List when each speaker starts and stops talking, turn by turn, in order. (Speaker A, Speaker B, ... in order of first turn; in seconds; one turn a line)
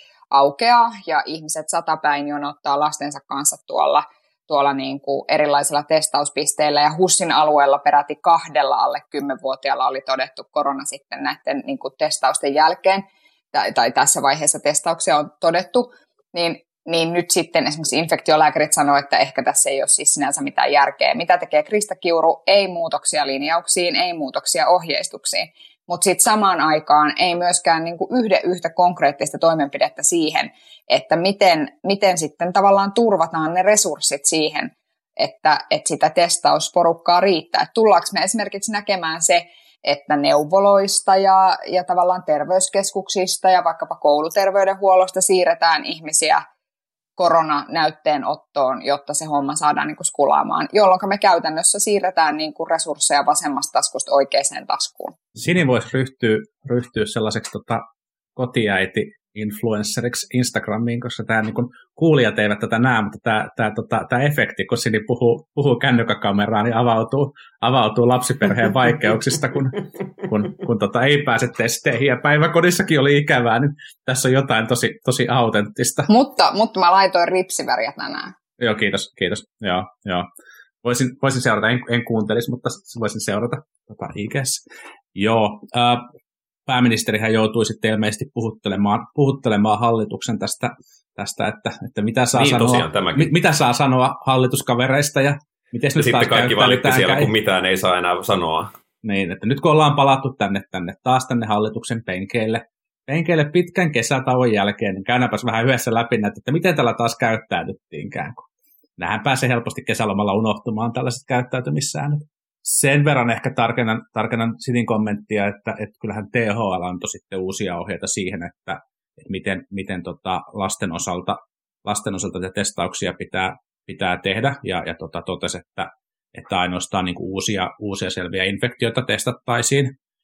Speaker A: 0.3-46.4
Speaker A: 47.2-55.1
Speaker B: 55.4-57.9
Speaker B: 58.4-76.1
Speaker A: 76.1-78.3
Speaker B: 78.6-80.3
Speaker B: 80.8-84.6
Speaker B: 85.2-86.1
Speaker B: 86.7-97.3
Speaker C: 92.3-93.3
Speaker C: 96.0-98.7
Speaker B: 99.0-108.5
Speaker B: 109.0-130.0